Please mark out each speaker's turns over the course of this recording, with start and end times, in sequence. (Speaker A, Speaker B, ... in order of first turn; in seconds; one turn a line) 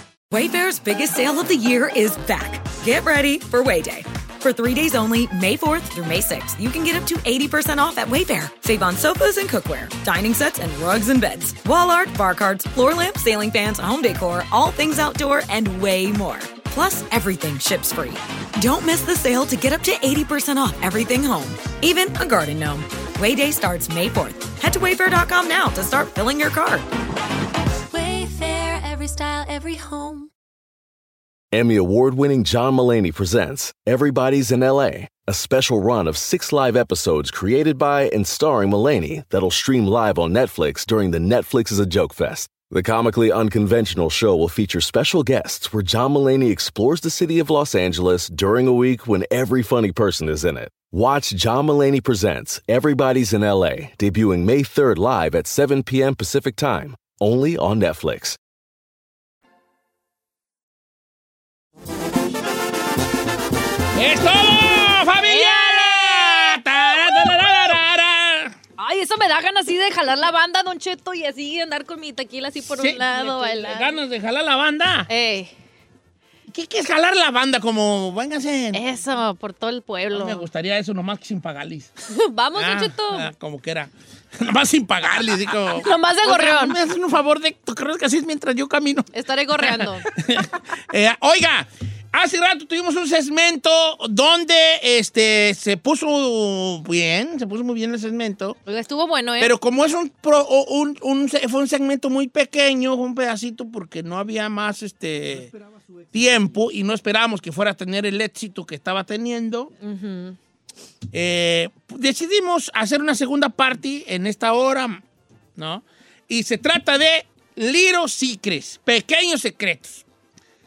Speaker A: 0.3-26.9
Speaker B: 27.9-30.3
Speaker C: 31.5-58.4
Speaker D: 63.9-68.5
Speaker E: 65.2-67.8
Speaker E: 68.8-74.0
Speaker D: 72.7-75.1
Speaker E: 75.1-75.5
Speaker D: 76.5-78.8
Speaker E: 78.7-80.5
Speaker D: 80.1-81.9
Speaker E: 82.1-83.3
Speaker D: 82.5-98.6
Speaker E: 85.8-86.8
Speaker E: 89.1-90.1
Speaker E: 98.7-99.5
Speaker D: 99.4-105.5
Speaker D: 106.1-109.7
Speaker E: 109.8-110.4
Speaker D: 111.1-115.0
Speaker D: 115.6-120.0